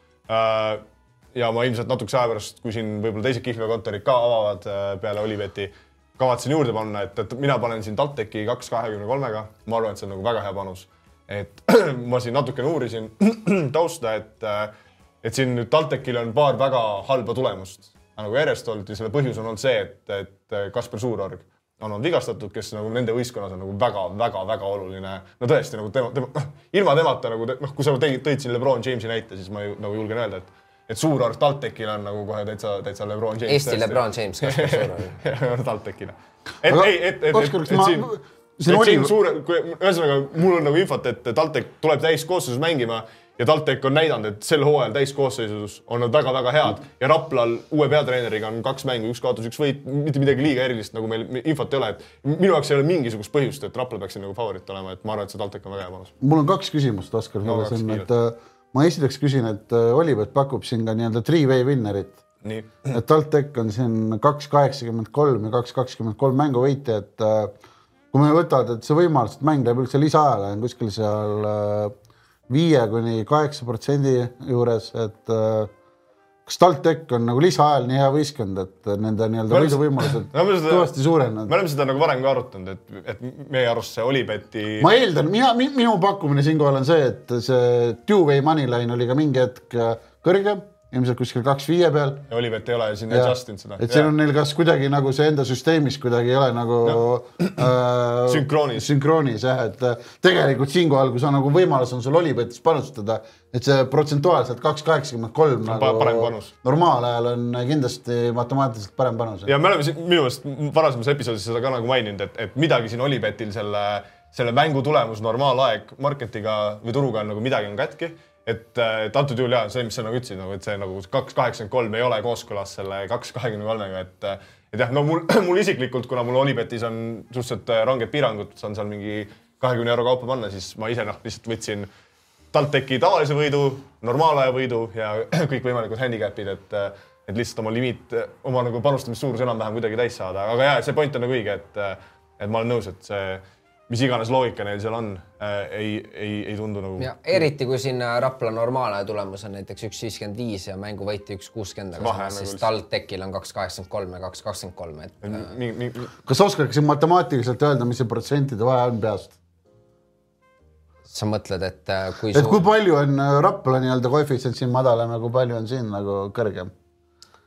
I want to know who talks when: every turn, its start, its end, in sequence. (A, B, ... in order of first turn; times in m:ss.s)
0:00.3-0:38.1 A
0:33.5-0:35.2 B
0:36.7-0:39.1 C
0:38.7-0:56.1 A
0:56.2-1:02.2 C
0:57.4-0:58.1 A
1:02.4-1:02.9 A
1:02.9-1:07.5 C
1:08.1-1:11.9 C
1:12.5-1:15.7 C
1:16.4-1:21.5 C
1:19.5-1:20.9 A
1:21.4-1:24.9 A
1:24.8-1:32.3 C
1:32.3-1:34.1 A
1:33.1-1:49.5 C
1:36.8-1:37.6 A
1:38.3-1:38.9 A
1:45.6-1:46.5 A
1:49.5-2:11.9 A
2:12.5-2:27.4 A
2:27.0-2:35.5 B
2:32.0-2:32.6 A
2:35.2-2:36.1 A
2:36.2-2:39.3 C
2:41.1-2:42.6 B
2:42.3-2:46.7 C